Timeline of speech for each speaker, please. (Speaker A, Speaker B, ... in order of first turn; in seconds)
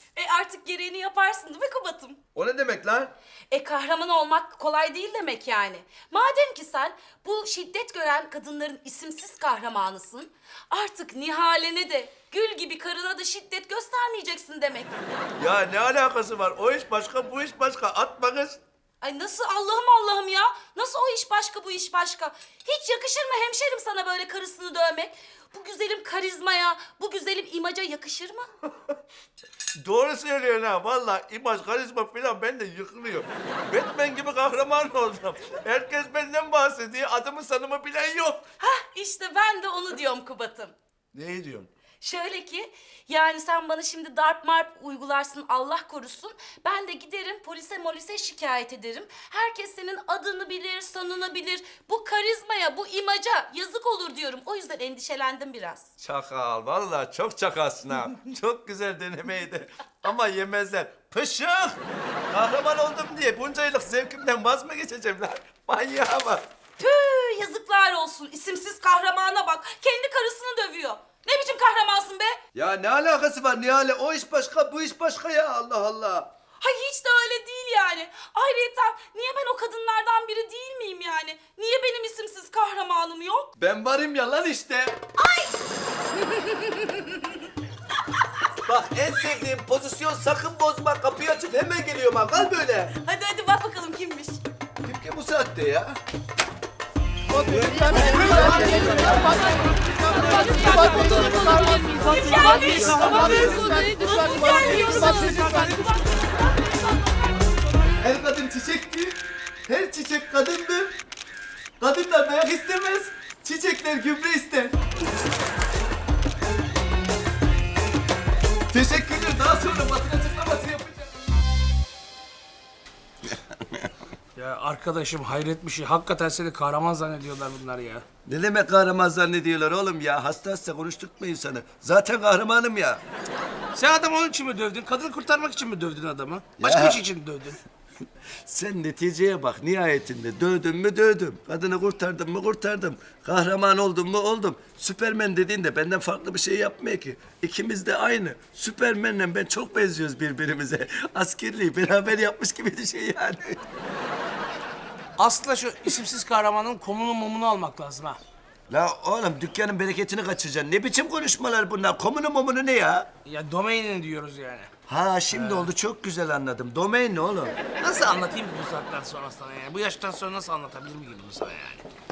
Speaker A: 0.1-2.2, 3.5-14.9, 19.0-28.4, 38.6-40.7, 42.0-55.9, 66.8-72.4, 76.6-83.5, 85.2-85.5, 86.1-87.2, 92.9-94.4, 98.0-107.9
Speaker B: 2.3-3.1, 15.4-18.6, 29.8-38.5, 41.1-41.7, 56.0-61.8, 62.3-66.4, 72.5-76.3, 83.6-85.0, 88.7-92.9, 94.8-96.0, 97.9-99.3, 102.9-103.2, 108.0-109.2, 109.7-110.9, 111.8-114.8, 118.7-121.1, 128.2-133.0, 136.6-137.0, 138.5-153.6, 158.7-163.1, 164.9-167.5
Speaker C: 124.3-128.0, 133.7-137.6, 155.2-158.2, 163.2-164.7, 165.3-165.7, 167.8-171.8